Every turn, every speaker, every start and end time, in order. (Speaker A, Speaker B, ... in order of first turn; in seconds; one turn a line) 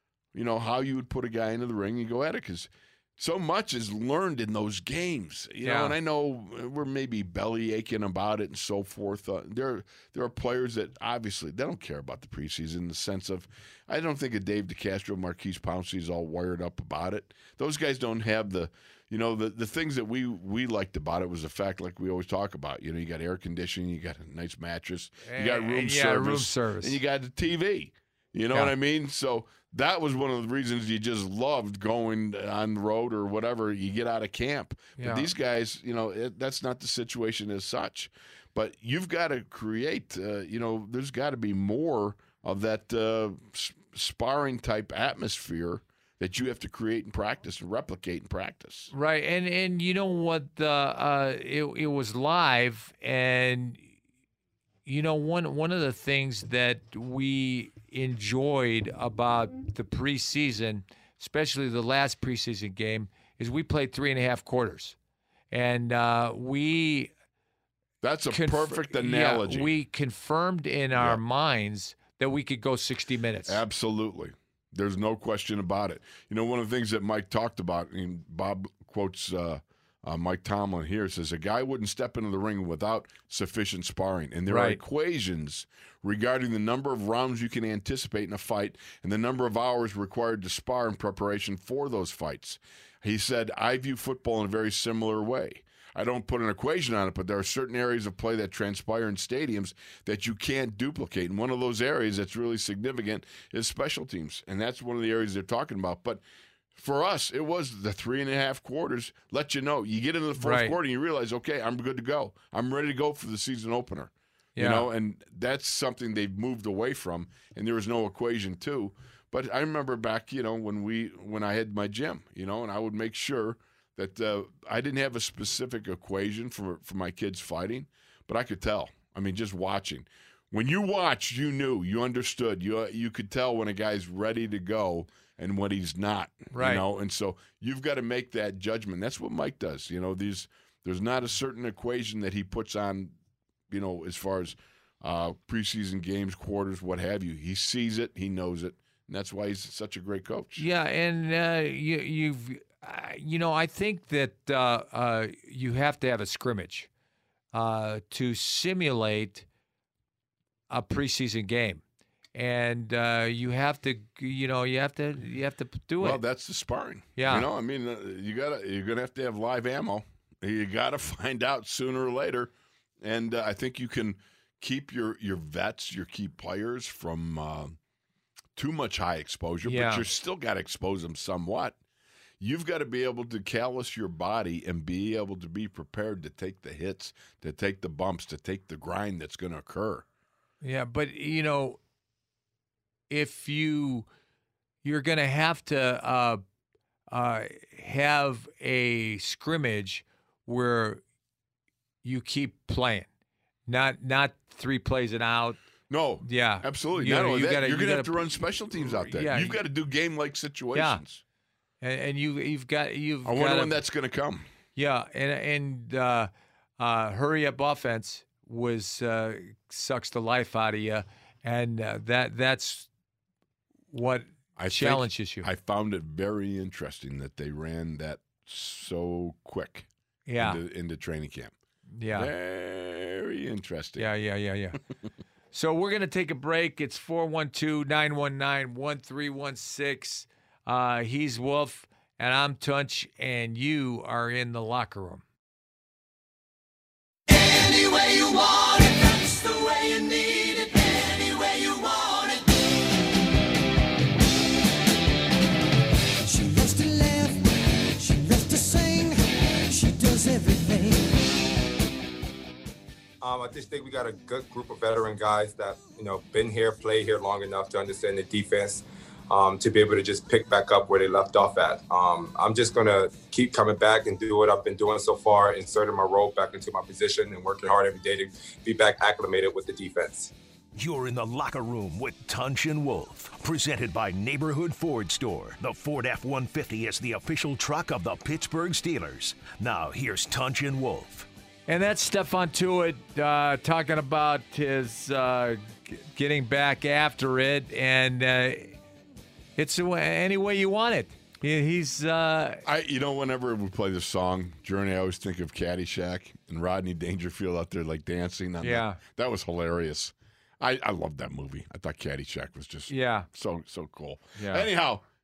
Speaker A: 0.3-48.9
Speaker B: 5.6-6.0
Speaker B: 25.2-27.0
Speaker B: 35.0-35.3
Speaker B: 48.9-53.9
Speaker B: 54.9-65.0
Speaker B: 65.5-67.1
Speaker A: 68.0-69.7
Speaker B: 68.3-73.6
Speaker A: 70.9-71.2
Speaker A: 73.5-106.2
Speaker B: 84.5-84.8
Speaker A: 106.7-143.1
Speaker B: 110.4-110.7
Speaker B: 114.5-114.9
Speaker B: 136.5-136.8
Speaker A: 143.7-150.7
Speaker B: 150.6-156.9
Speaker B: 157.5-159.4
Speaker B: 160.7-161.8
Speaker B: 162.3-166.2
Speaker A: 166.0-177.8
Speaker B: 167.2-167.5
Speaker A: 178.6-181.8
Speaker B: 179.6-180.0
Speaker A: 182.4-190.1
Speaker B: 190.6-191.8
Speaker B: 193.1-194.1
Speaker B: 194.8-196.4
Speaker B: 197.1-201.0
Speaker B: 202.0-203.1
Speaker B: 203.7-205.6
Speaker A: 205.9-211.2
Speaker B: 206.2-209.6
Speaker B: 210.7-211.0
Speaker B: 211.8-213.8
Speaker A: 213.2-214.5
Speaker B: 214.7-222.9
Speaker B: 223.9-225.5
Speaker A: 224.6-231.5
Speaker B: 230.3-230.6
Speaker B: 231.9-232.3
Speaker A: 232.1-234.1
Speaker B: 234.0-234.8
Speaker B: 235.5-245.2
Speaker C: 247.3-252.7
Speaker C: 256.2-261.4
Speaker D: 263.2-280.3
Speaker E: 280.7-291.3
Speaker B: 291.7-298.8
Speaker B: 299.6-302.6
Speaker A: 302.6-315.0
Speaker B: 308.6-309.0
Speaker B: 312.9-313.3
Speaker B: 314.4-314.7